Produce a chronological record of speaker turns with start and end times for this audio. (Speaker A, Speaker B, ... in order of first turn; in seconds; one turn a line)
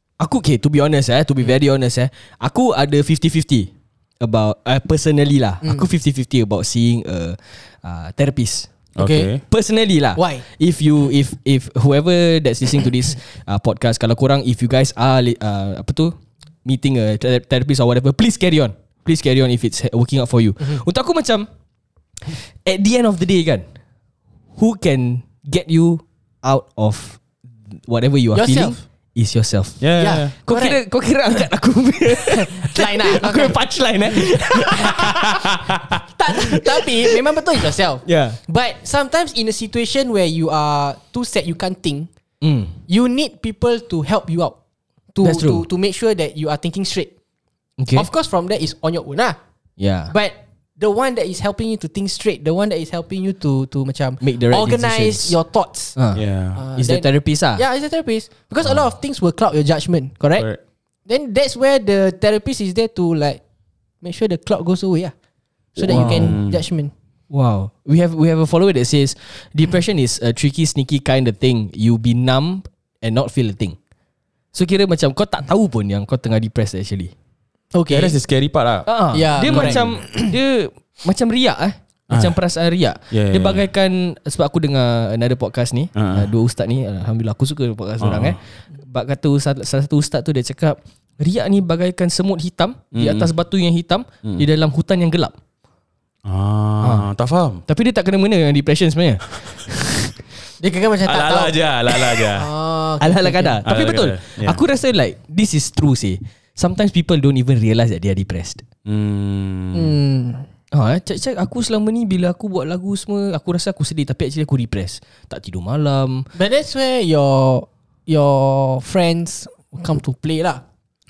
Speaker A: 0.2-8.7
Speaker B: 9.0-9.4
Speaker C: 9.0-9.3
Speaker A: 9.4-21.5
Speaker C: 10.2-10.4
Speaker A: 22.3-23.7
Speaker A: 24.6-29.9
Speaker C: 28.3-28.8
Speaker B: 29.8-30.3
Speaker C: 30.0-30.8
Speaker A: 30.4-35.7
Speaker C: 32.2-33.6
Speaker B: 35.3-36.0
Speaker C: 36.1-42.1
Speaker A: 36.3-37.2
Speaker A: 38.0-38.4
Speaker A: 42.4-42.8
Speaker C: 42.9-44.6
Speaker C: 45.1-47.1
Speaker A: 45.2-45.7
Speaker A: 47.8-48.1
Speaker C: 48.0-49.4
Speaker A: 49.8-50.1
Speaker C: 50.1-56.0
Speaker A: 54.2-55.4
Speaker B: 56.1-56.6
Speaker C: 56.6-60.5
Speaker A: 56.8-57.6
Speaker C: 61.1-63.4
Speaker C: 64.0-65.1
Speaker C: 65.8-66.9
Speaker A: 65.8-66.4
Speaker B: 65.9-66.6
Speaker A: 67.3-73.8
Speaker A: 74.5-77.1
Speaker C: 77.7-78.2
Speaker B: 77.9-78.9
Speaker A: 78.9-95.4
Speaker C: 79.1-80.3
Speaker B: 79.5-79.8
Speaker B: 82.1-82.4
Speaker B: 83.1-83.7
Speaker B: 86.0-86.3
Speaker B: 88.0-88.4
Speaker B: 92.9-93.3
Speaker B: 96.2-97.6
Speaker A: 96.8-97.1
Speaker A: 97.7-100.2
Speaker C: 100.6-103.6
Speaker B: 101.0-102.5
Speaker A: 103.0-108.6
Speaker B: 103.7-104.6
Speaker B: 108.8-110.0
Speaker C: 109.7-110.5
Speaker A: 110.7-116.3
Speaker C: 116.3-120.6